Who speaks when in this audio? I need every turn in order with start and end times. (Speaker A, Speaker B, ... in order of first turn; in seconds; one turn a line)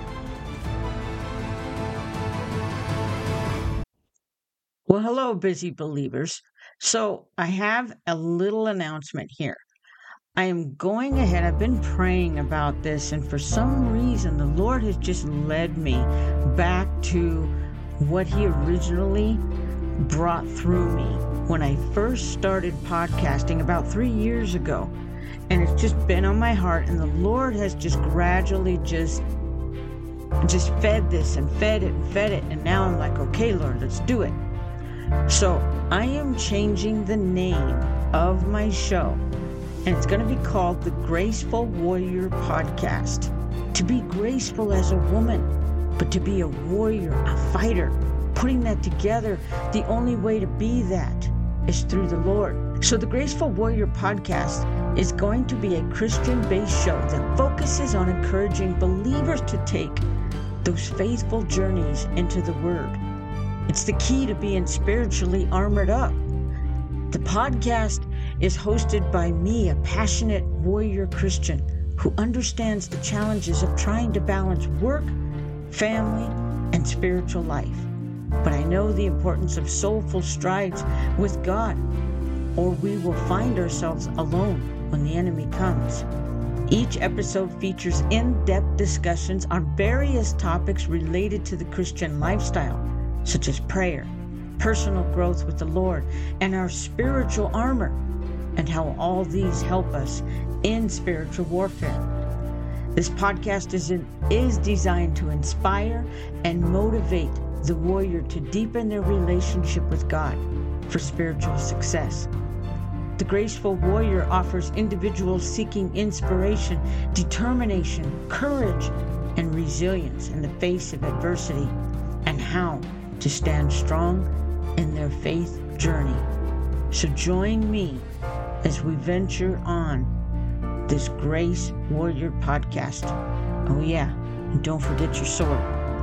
Speaker A: 4.9-9.6
Speaker A: 10.3-19.4
Speaker A: 20.0-24.9
Speaker A: 25.5-29.2
Speaker A: 30.4-34.4
Speaker A: 35.3-39.2
Speaker A: 39.8-60.0
Speaker A: 60.6-63.0
Speaker A: 63.7-66.2
Speaker A: 67.1-75.2
Speaker A: 75.7-77.9
Speaker A: 78.4-81.8
Speaker A: 82.6-86.0
Speaker A: 86.7-98.0
Speaker A: 98.5-102.0
Speaker A: 102.9-112.3
Speaker A: 113.2-126.3
Speaker A: 126.9-128.1
Speaker A: 128.6-130.1
Speaker A: 130.9-133.2
Speaker A: 133.7-135.7